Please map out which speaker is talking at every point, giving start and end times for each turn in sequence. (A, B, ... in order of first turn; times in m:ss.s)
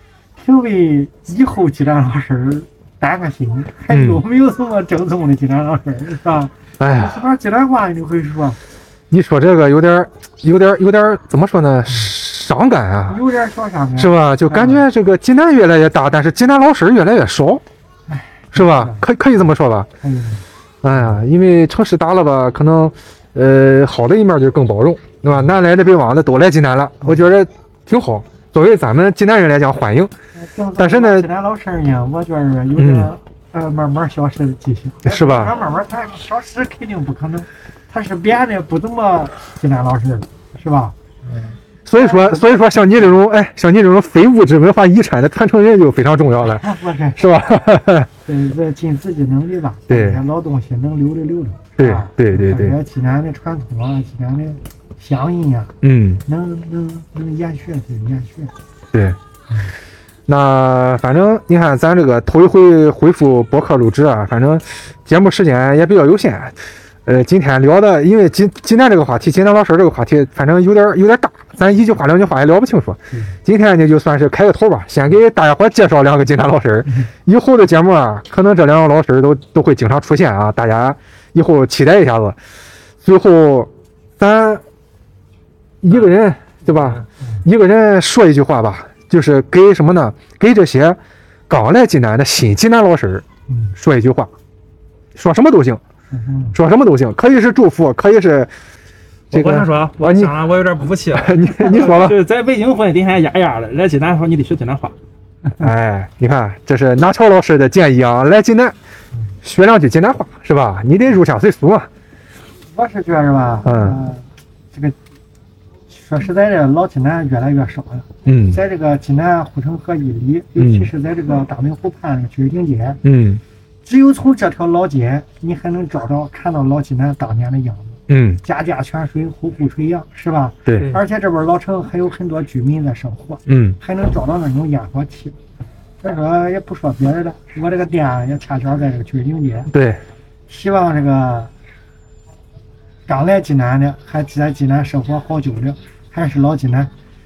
0:00.4-0:08.6 A
0:03.9-0:04.2 B
0:06.8-0:07.2 B
0:09.1-0:13.2 B
0:13.1-0:14.9 A
0:14.0-0:17.6 B
0:18.1-0:20.4 A
0:18.5-0:19.9 B
0:20.8-0:30.1 B
0:30.4-0:41.0 A
0:30.8-0:31.3 B
0:32.8-0:33.1 B
0:35.0-0:35.5 B
0:41.3-0:41.6 C
0:41.9-0:46.6 B
0:41.9-0:42.5 A
0:46.4-0:47.3 A
0:47.2-0:48.1 B
0:48.3-0:55.7 A
0:49.9-0:50.2 B
0:51.8-0:52.8 B
0:55.8-0:56.2 B
0:56.3-0:58.5 A
1:00.3-1:22.4 B
1:23.0-1:24.6 B
1:25.8-1:31.0 B
1:26.7-1:27.0 C
1:31.5-1:33.2 B
1:33.5-1:33.7 A
1:33.8-1:34.3 B
1:35.2-1:35.8 B
1:36.1-1:36.6 A
1:36.5-1:38.5 B
1:39.3-1:45.0 C
1:39.3-1:40.4 B
1:41.1-1:42.2 B
1:45.6-1:48.8 B
1:49.4-1:51.9 B
1:52.7-1:55.0 A
1:53.6-1:54.0 B
1:55.9-2:03.0 A
1:58.3-1:58.6 B
2:00.6-2:00.9 B
2:03.0-2:03.4 B
2:03.8-2:15.4 A
2:08.1-2:08.4 B
2:10.7-2:11.0 B
2:13.5-2:13.8 B
2:16.0-2:19.7 A
2:19.7-2:20.0 B
2:20.5-2:21.5 A
2:23.1-2:26.9 A